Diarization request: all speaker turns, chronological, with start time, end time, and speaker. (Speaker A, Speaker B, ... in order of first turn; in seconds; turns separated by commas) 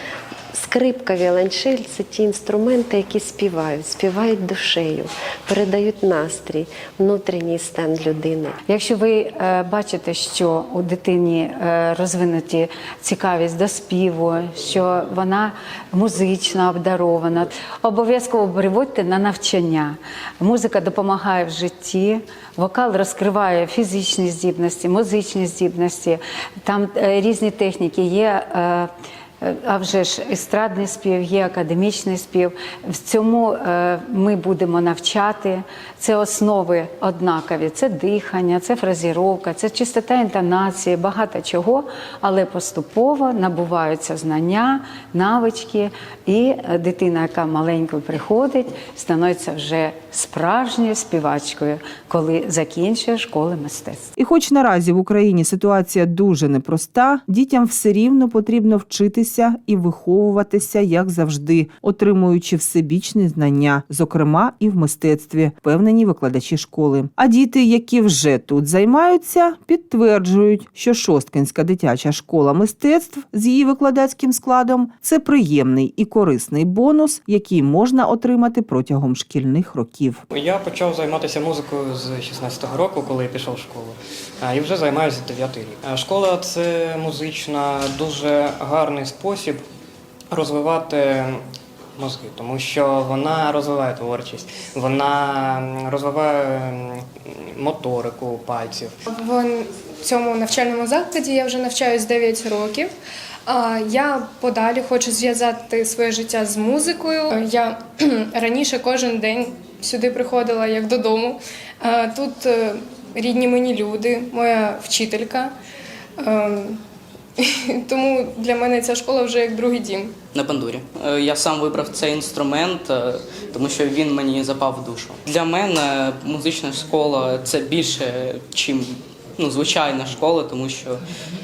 Speaker A: 0.5-8.6, Speaker B: 8.7-28.9, Speaker B: 29.4-54.1, Speaker C: 54.1-80.2, Speaker D: 80.3-89.6, Speaker D: 90.3-91.4, Speaker D: 92.0-99.0, Speaker E: 99.1-102.9, Speaker E: 103.5-115.5, Speaker E: 116.2-116.8, Speaker E: 117.4-120.1, Speaker F: 120.3-131.0